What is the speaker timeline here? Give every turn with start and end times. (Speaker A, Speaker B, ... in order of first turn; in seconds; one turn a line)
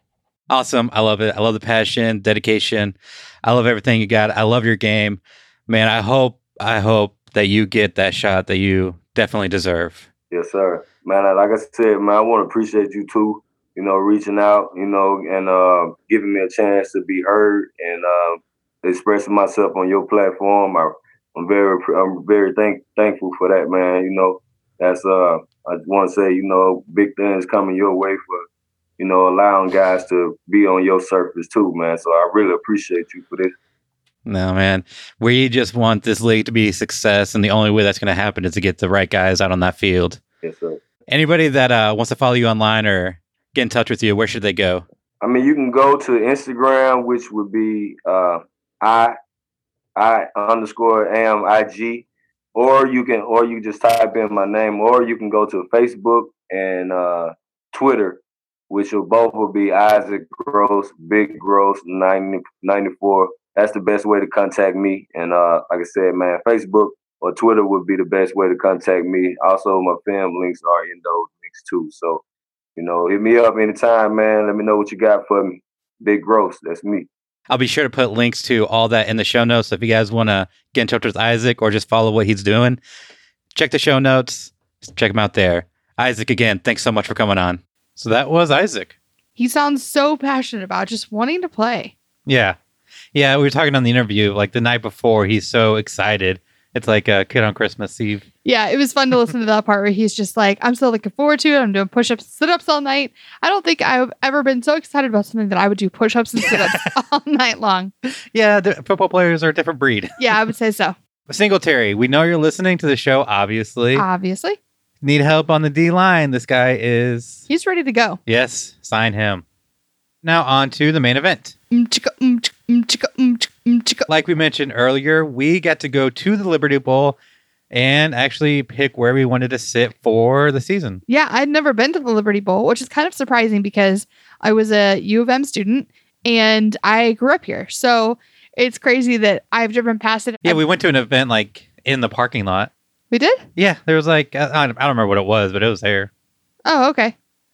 Speaker A: 0.5-10.1
Speaker B: 10.3-28.4
Speaker B: 29.0-33.5
Speaker A: 34.3-40.2
Speaker B: 40.4-40.8
Speaker A: 41.1-44.9
Speaker B: 45.2-49.1
Speaker B: 50.0-72.2
Speaker B: 72.8-77.1
Speaker A: 77.5-82.8
Speaker A: 83.5-88.9
Speaker C: 89.4-91.9
Speaker A: 92.3-92.6
Speaker A: 93.1-98.3
Speaker C: 98.5-107.9
Speaker A: 106.5-106.8
Speaker A: 108.3-110.2
Speaker C: 110.2-111.0
Speaker A: 111.3-114.0
Speaker C: 114.0-114.6
Speaker A: 115.0-117.5
Speaker C: 117.5-118.2
Speaker A: 118.3-119.4
Speaker A: 120.2-121.5
Speaker C: 121.7-124.1
Speaker A: 124.1-127.2
Speaker A: 127.7-131.0
Speaker C: 131.1-140.6
Speaker A: 140.4-142.7
Speaker C: 143.1-143.5
Speaker A: 143.6-146.1
Speaker C: 146.7-147.2